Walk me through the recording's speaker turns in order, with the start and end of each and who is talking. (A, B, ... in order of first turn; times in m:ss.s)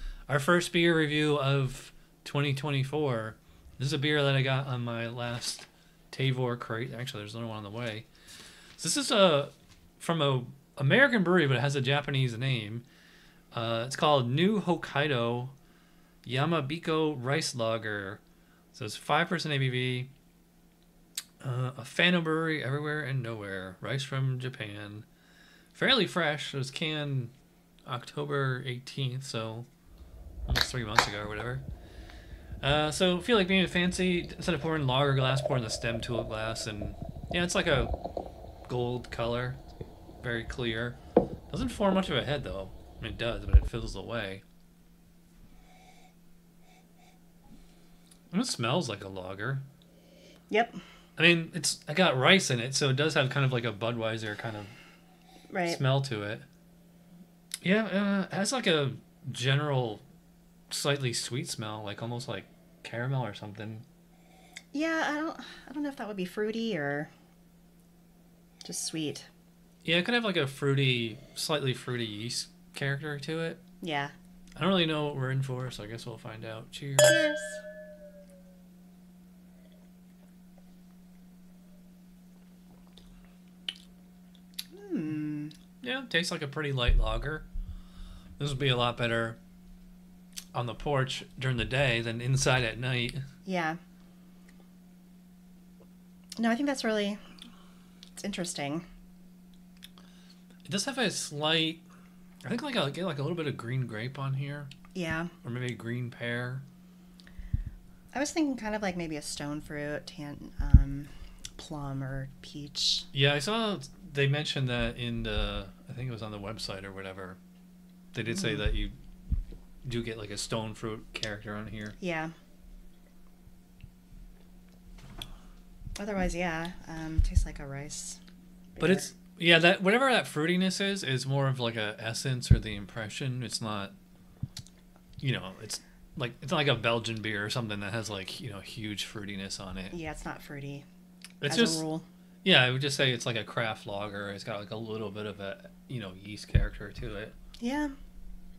0:00.3-0:08.1 A
0:08.8-0:12.9 A
0:13.5-0:15.5 A
0:16.2-0:18.2 A
0:18.7-0:20.1 A
0:21.4-0:25.1 A
0:25.7-0:27.3 A
0:27.9-0:29.7 A
0:30.5-0:31.6 A
0:32.6-0:37.9 A
0:38.7-0:39.6 A
0:40.2-0:41.0 A
0:41.5-0:44.4 A
0:48.3-0:49.6 A
0:50.5-0:50.8 B
0:51.2-0:54.7 A
0:55.5-0:55.8 B
0:55.7-0:56.5 A
0:57.6-1:00.0 A
1:00.7-1:03.8 A
1:04.7-1:07.1 B
1:08.6-1:09.3 B
1:09.8-1:13.6 A
1:13.8-1:14.1 B
1:14.6-1:17.2 A
1:17.0-1:17.6 B
1:24.7-1:25.5 B
1:25.8-1:27.4 A
1:28.4-1:29.4 A
1:30.5-1:33.2 A
1:33.4-1:33.8 B
1:36.4-1:37.2 B
1:38.2-1:38.8 B
1:40.7-1:41.8 A
1:42.4-1:44.7 A
1:44.9-1:45.3 B
1:45.4-1:46.6 A
1:48.1-1:53.1 B
1:53.1-1:57.4 A
1:58.1-1:59.0 A
1:58.3-1:58.6 B
1:59.8-2:02.0 A
2:02.0-2:02.3 B
2:06.0-2:08.2 B
2:08.8-2:09.1 B
2:08.8-2:13.9 A
2:15.2-2:19.9 A
2:19.9-2:20.9 B
2:21.4-2:21.8 A
2:21.5-2:22.1 B
2:22.4-2:27.4 A
2:27.6-2:27.9 B